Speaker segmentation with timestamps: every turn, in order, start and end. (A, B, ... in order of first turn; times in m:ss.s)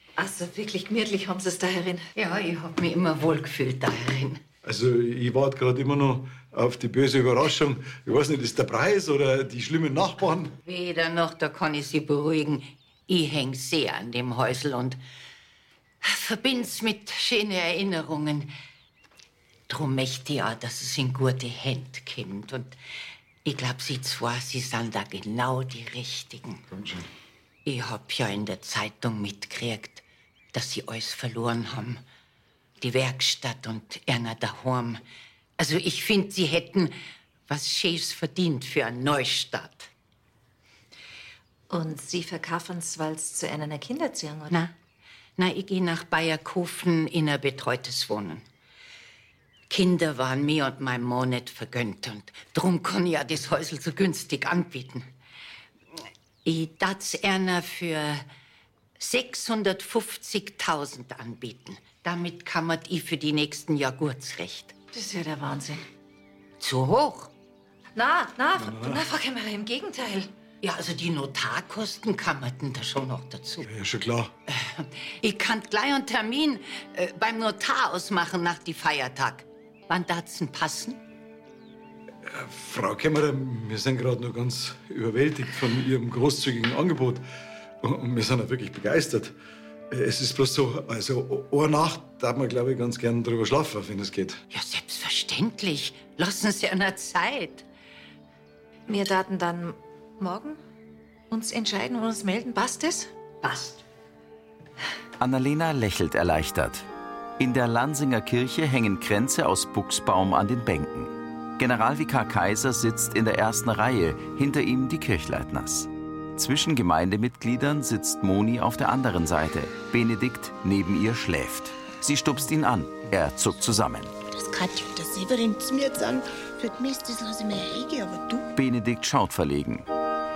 0:00.2-0:02.1 A
0:02.2-0:04.4 B
0:04.6-0:10.6 C
0:10.6-0:15.0 B
0:16.0-0:18.5 B
0:19.7-0:22.8 B
0:23.4-0:26.6 B
0:26.7-0:27.1 C
0:27.6-0:32.0 B
0:32.8-0:35.0 B
0:35.6-0:37.0 B
0:37.5-0:39.9 B
0:41.7-0:44.6 A
0:45.4-0:48.4 B
0:49.7-0:55.1 B
0:56.4-0:58.2 B
0:59.0-1:04.8 B
1:04.9-1:05.8 A
1:06.6-1:07.3 B
1:08.0-1:10.3 A
1:08.6-1:09.1 C
1:10.6-1:13.7 B
1:13.6-1:14.3 C
1:14.5-1:21.0 B
1:22.2-1:27.2 C
1:27.8-1:29.4 C
1:29.9-1:34.4 C
1:34.5-1:37.6 B
1:38.9-1:40.6 A
1:41.3-1:43.1 A
1:43.4-1:43.8 B
1:45.2-1:46.9 D
1:47.4-2:04.1 D
2:04.3-2:08.5 E
2:08.6-2:09.9 D